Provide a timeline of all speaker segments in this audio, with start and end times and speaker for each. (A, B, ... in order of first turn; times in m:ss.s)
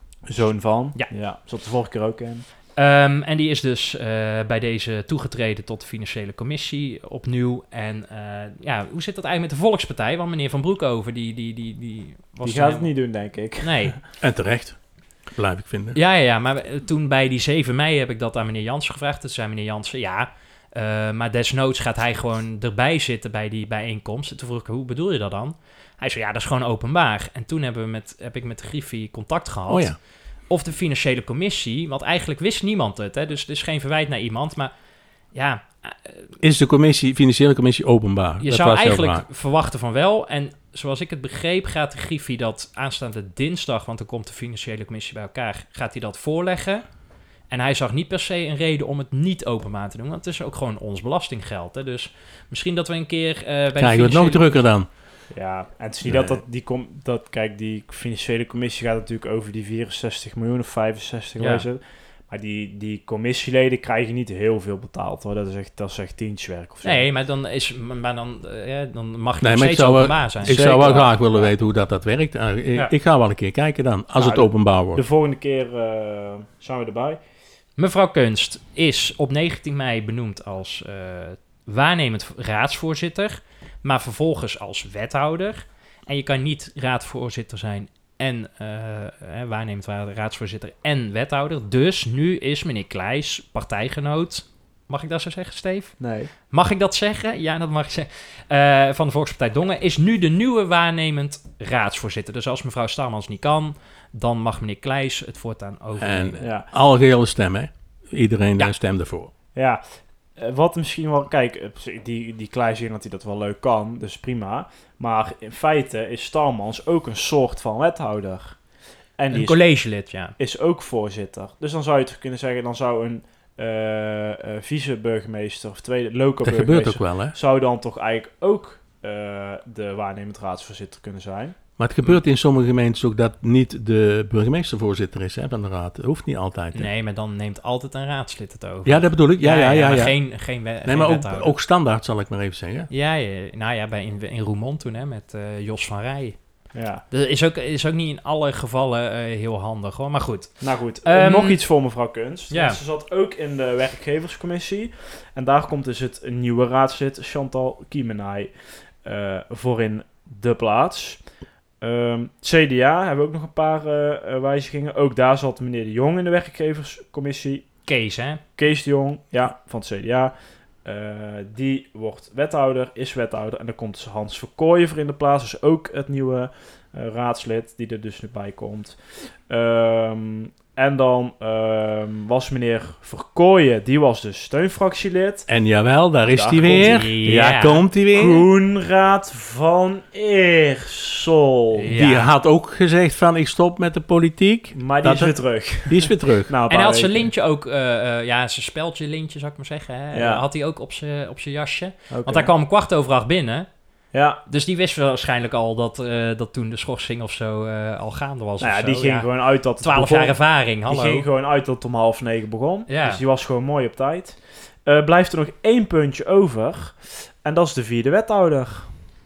0:00.3-0:02.4 A
0:02.8-0:12.9 B
0:12.4-0:14.0 A
0:13.6-0:13.9 B
0:14.2-0:16.0 C
0:15.9-0:30.0 B
0:29.7-0:30.0 C
0:30.5-0:34.7 B
0:35.3-0:36.3 B
0:36.4-0:39.2 C
0:38.4-0:46.9 B
0:47.5-0:54.6 B
0:53.8-0:54.9 C
0:55.3-1:07.1 A
0:56.0-0:56.4 C
1:01.4-1:01.6 B
1:06.8-1:11.0 B
1:09.4-1:15.0 C
1:10.4-1:11.5 A
1:14.2-1:17.2 A
1:17.8-1:46.4 B
1:36.0-1:36.3 A
1:46.0-1:49.3 C
1:46.4-1:46.7 A
1:49.5-2:11.6 A
1:59.3-2:00.4 B
2:06.4-2:07.3 C
2:11.8-2:16.9 C
2:16.7-2:21.5 B
2:18.8-2:22.9 C
2:22.9-2:31.6 B
2:26.7-2:27.0 A
2:30.6-2:41.3 A
2:32.5-2:32.8 B
2:41.8-2:47.8 A
2:47.8-2:48.4 B
2:48.5-3:05.5 A
3:05.5-3:08.4 C
3:06.2-3:07.2 A
3:06.7-3:07.8 B
3:08.1-3:11.9 A
3:11.8-3:12.3 B
3:11.9-3:16.5 C
3:14.7-3:17.3 A
3:16.7-3:23.7 B
3:20.1-3:20.4 A
3:22.1-3:22.5 A
3:24.1-3:24.4 A
3:24.4-3:31.3 B
3:28.6-3:39.0 A
3:32.9-3:33.2 B